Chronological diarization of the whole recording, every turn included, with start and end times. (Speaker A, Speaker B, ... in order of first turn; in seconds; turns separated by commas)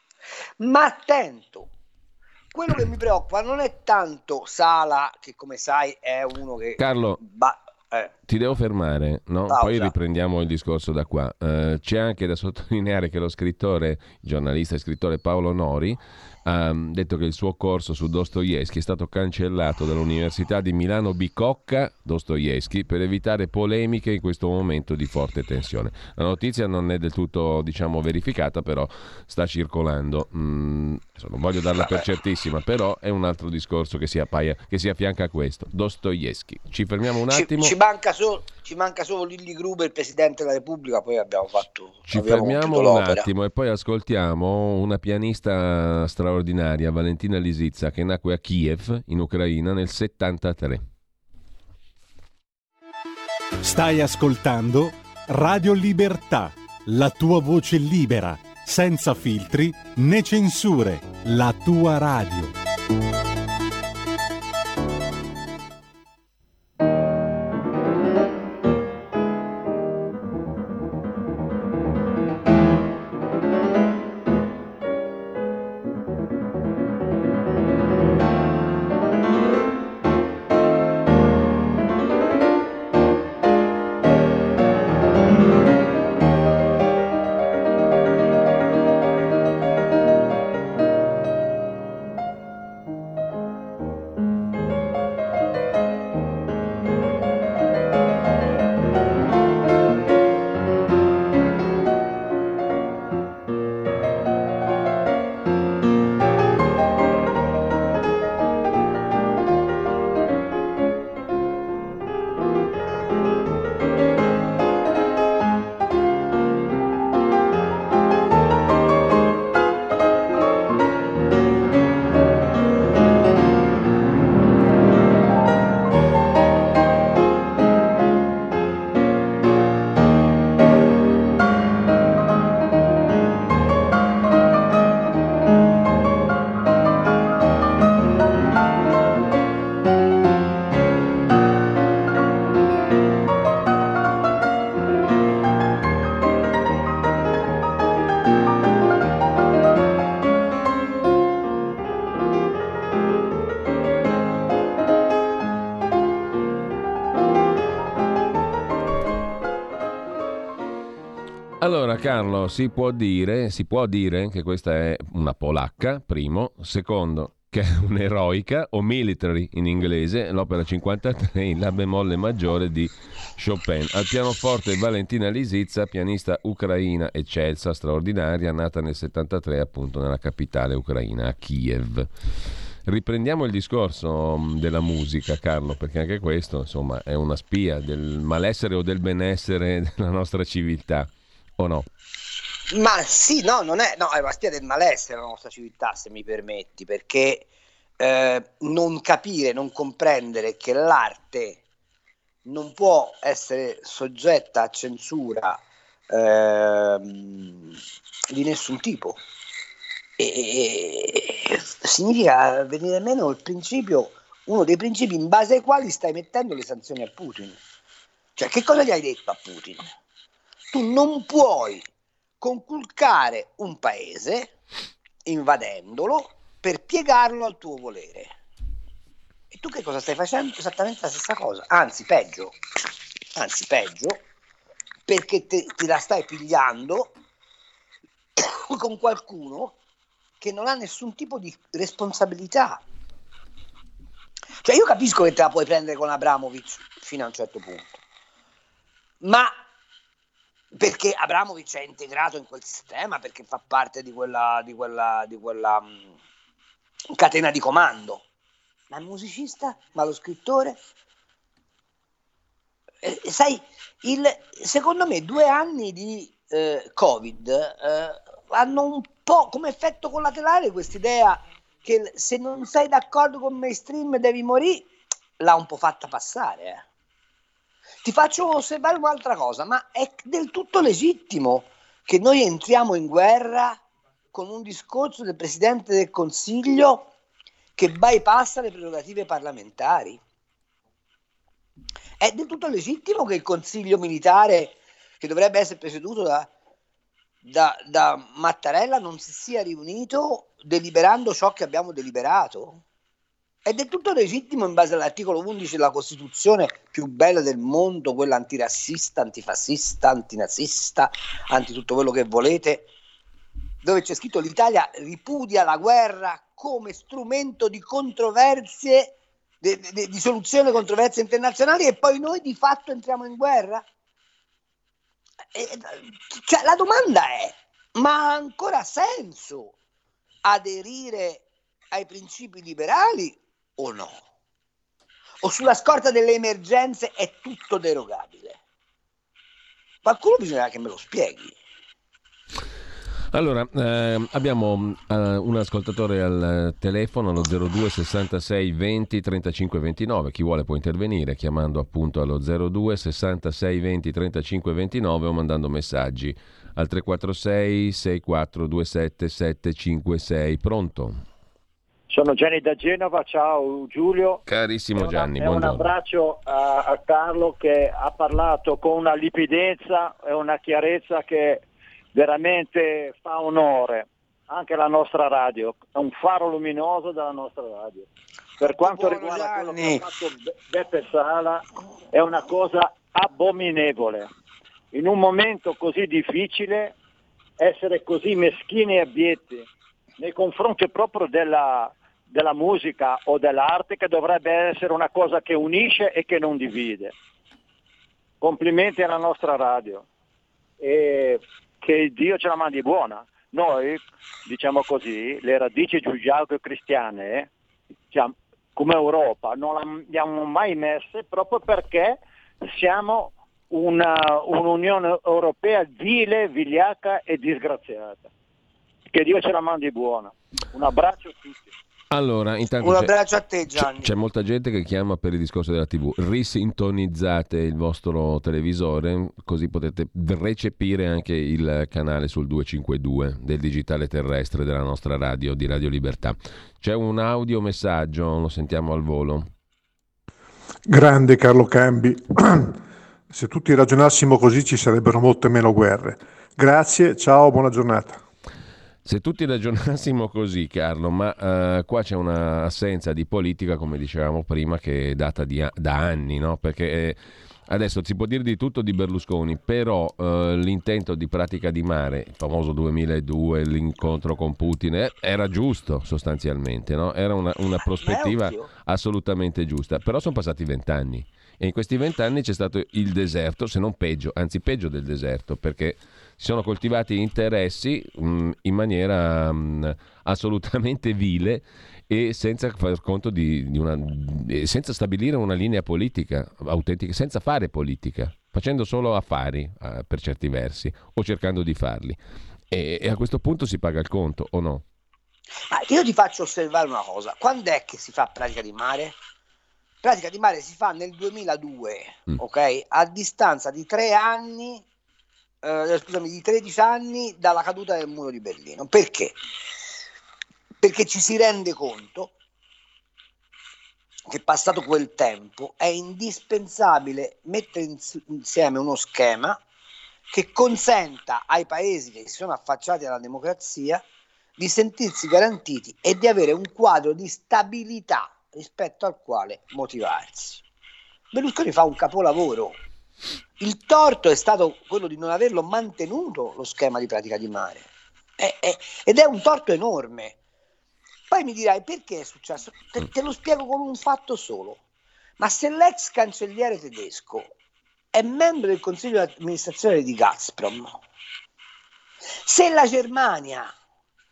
Speaker A: 0.6-1.7, Speaker A: 2.5-8.1, Speaker B: 6.8-7.2, Speaker B: 8.3-37.7, Speaker A: 9.5-9.9, Speaker A: 37.3-43.3, Speaker B: 42.1-50.8, Speaker C: 53.6-62.5, Speaker B: 161.6-182.1, Speaker B: 182.8-191.8, Speaker A: 192.7-197.4, Speaker A: 198.0-201.6, Speaker A: 202.4-207.8, Speaker A: 208.3-209.2, Speaker A: 210.2-217.6, Speaker A: 218.3-219.9, Speaker A: 220.7-221.9, Speaker A: 222.4-224.5, Speaker A: 225.2-228.3, Speaker A: 229.5-232.5, Speaker A: 233.3-234.2, Speaker A: 235.1-237.1, Speaker A: 238.3-239.8, Speaker A: 240.4-242.8, Speaker A: 244.6-248.0, Speaker A: 249.2-249.5, Speaker A: 250.7-256.1, Speaker A: 257.1-258.2, Speaker A: 258.9-260.8, Speaker A: 263.0-276.8, Speaker A: 278.0-283.8, Speaker A: 284.3-287.1, Speaker A: 287.8-290.2, Speaker A: 292.2-296.5, Speaker A: 297.4-302.8, Speaker A: 303.6-312.9, Speaker A: 313.8-323.8, Speaker A: 325.5-329.7, Speaker A: 330.4-334.2, Speaker A: 335.4-338.6, Speaker A: 340.0-341.6, Speaker B: 343.3-361.2, Speaker D: 362.1-364.4, Speaker B: 364.5-365.9, Speaker D: 364.9-378.1, Speaker A: 378.6-380.0, Speaker D: 378.6-384.3, Speaker D: 384.9-386.9, Speaker D: 387.6-397.1, Speaker D: 398.4-400.1, Speaker D: 400.8-407.5, Speaker D: 408.1-418.3, Speaker D: 419.1-421.7, Speaker B: 422.1-423.1, Speaker A: 422.8-424.1, Speaker B: 423.7-439.5, Speaker E: 440.9-442.8, Speaker E: 443.3-448.2, Speaker B: 449.0-492.2, Speaker A: 467.8-468.7, Speaker B: 492.7-494.8, Speaker A: 495.7-499.2, Speaker A: 500.0-504.8, Speaker A: 505.6-509.4, Speaker A: 510.8-512.3, Speaker A: 514.3-519.6, Speaker A: 520.3-524.0, Speaker A: 524.6-530.6, Speaker A: 531.3-532.8, Speaker A: 533.6-537.9, Speaker A: 538.4-540.4, Speaker A: 541.3-544.8, Speaker A: 545.4-547.5, Speaker A: 548.1-551.0, Speaker A: 552.4-553.7